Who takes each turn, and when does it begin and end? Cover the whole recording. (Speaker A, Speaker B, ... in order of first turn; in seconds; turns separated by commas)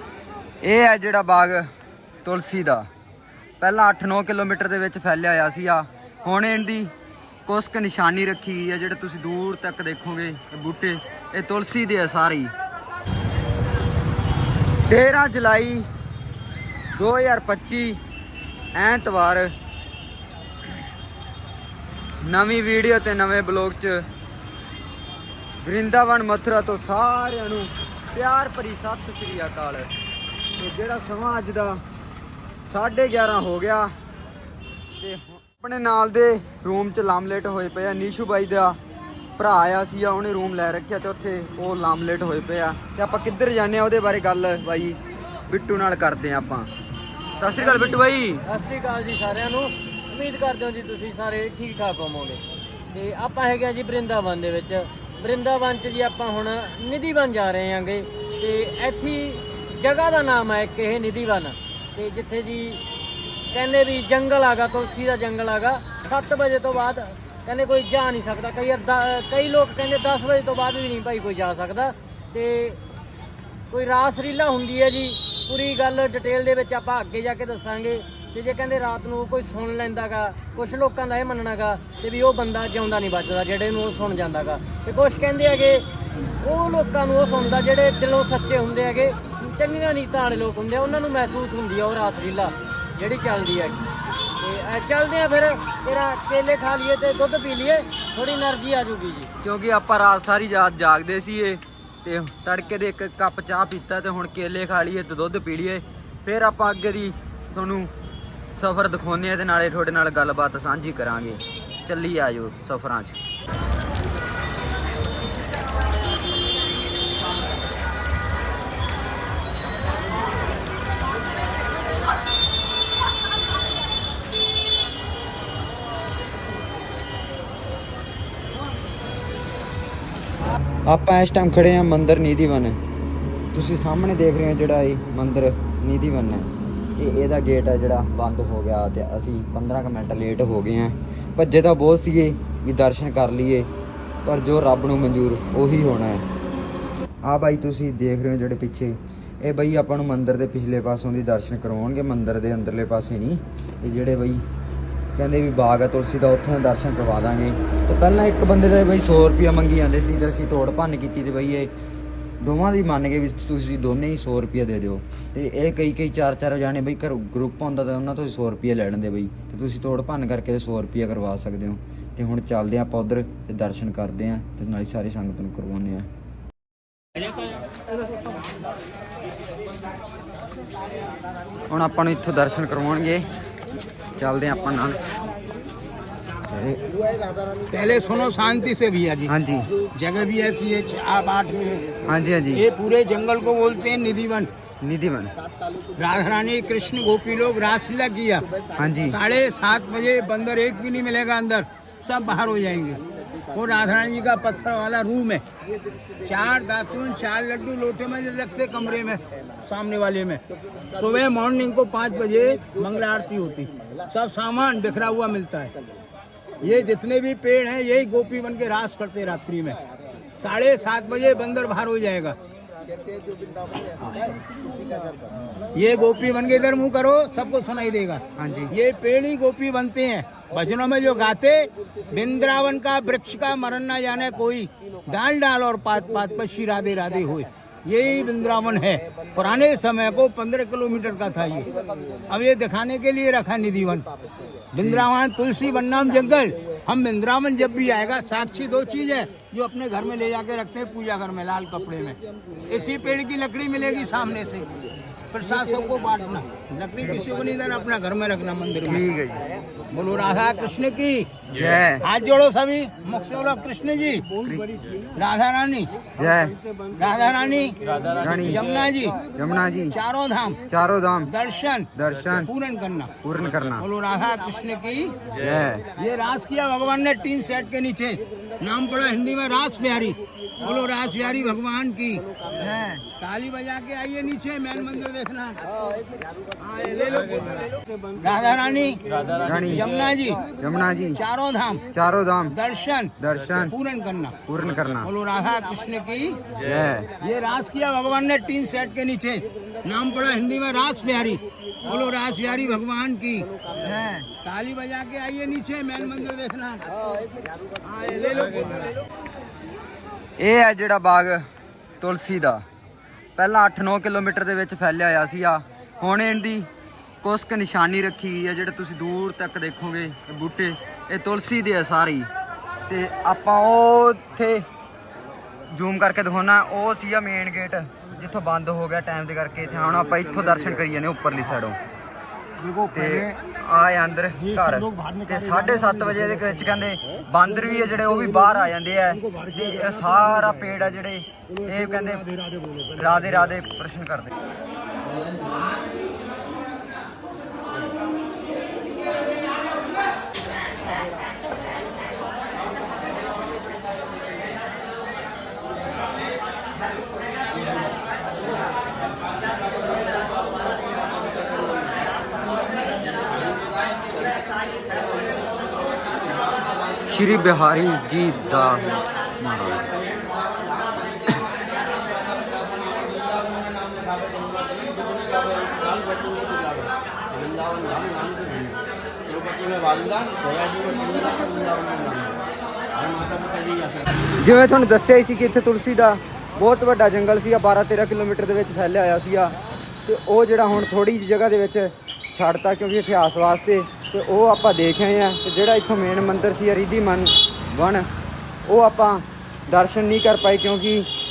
Speaker A: 0.6-1.7, Speaker A: 2.2-2.9, Speaker A: 3.6-6.9, Speaker A: 7.5-12.5, Speaker A: 14.9-15.9, Speaker A: 17.0-18.0, Speaker A: 18.8-19.5, Speaker A: 22.2-24.0, Speaker A: 25.6-29.9, Speaker A: 30.6-31.8, Speaker A: 32.7-33.9, Speaker A: 35.0-38.8, Speaker A: 39.4-46.7, Speaker A: 47.4-48.4, Speaker B: 47.6-52.4, Speaker B: 52.9-62.8, Speaker B: 63.5-72.8, Speaker B: 73.7-85.9, Speaker B: 86.4-93.8, Speaker B: 94.4-99.3, Speaker A: 99.4-107.9, Speaker A: 108.5-113.2, Speaker A: 130.9-132.8, Speaker A: 133.5-143.7, Speaker A: 144.2-146.2, Speaker A: 147.2-154.4, Speaker A: 155.2-161.7, Speaker A: 162.4-176.1, Speaker A: 181.7-183.3, Speaker A: 184.2-185.0, Speaker A: 186.5-186.8, Speaker C: 187.7-192.0, Speaker A: 189.3-189.7, Speaker A: 192.1-192.7, Speaker C: 192.5-194.5, Speaker A: 194.8-195.3, Speaker C: 196.0-198.5, Speaker A: 198.8-199.2, Speaker C: 199.1-203.0, Speaker C: 203.5-205.4, Speaker C: 206.2-210.4, Speaker C: 210.9-215.7, Speaker C: 216.6-219.8, Speaker C: 220.4-222.4, Speaker C: 224.0-224.3, Speaker C: 225.8-241.7, Speaker A: 228.4-228.7, Speaker C: 242.3-244.1, Speaker C: 244.7-254.7, Speaker C: 255.3-259.1, Speaker A: 258.9-259.4, Speaker C: 259.9-261.4, Speaker A: 261.5-262.0, Speaker C: 262.0-264.3, Speaker A: 264.4-264.7, Speaker C: 265.2-266.0, Speaker A: 266.2-266.6, Speaker C: 266.9-267.8, Speaker A: 268.1-268.7, Speaker C: 268.4-269.2, Speaker A: 269.4-270.0, Speaker C: 269.9-270.6, Speaker A: 270.7-271.3, Speaker C: 271.3-271.9, Speaker A: 272.0-272.5, Speaker C: 272.4-273.1, Speaker A: 273.2-273.9, Speaker C: 273.8-275.2, Speaker A: 275.3-275.8, Speaker C: 275.9-282.2, Speaker A: 282.6-283.0, Speaker C: 283.1-285.6, Speaker C: 286.7-287.7, Speaker C: 288.2-290.5, Speaker A: 289.4-289.9, Speaker A: 290.6-291.2, Speaker C: 291.2-291.9, Speaker A: 291.9-292.6, Speaker C: 292.5-294.4, Speaker A: 293.2-293.7, Speaker A: 294.5-295.1, Speaker C: 295.0-296.4, Speaker A: 296.6-297.1, Speaker C: 297.2-303.5, Speaker A: 303.9-304.2, Speaker C: 304.3-306.9, Speaker C: 307.9-308.9, Speaker A: 310.4-311.4, Speaker A: 312.0-312.6, Speaker A: 313.4-316.7, Speaker A: 317.2-322.3, Speaker A: 322.9-324.7, Speaker A: 325.7-331.8, Speaker A: 332.9-342.3, Speaker A: 342.9-344.3, Speaker A: 367.1-369.9, Speaker B: 374.4-374.9, Speaker B: 375.6-376.5, Speaker B: 378.0-378.5, Speaker B: 379.6-381.9, Speaker A: 384.4-398.1, Speaker A: 398.7-401.1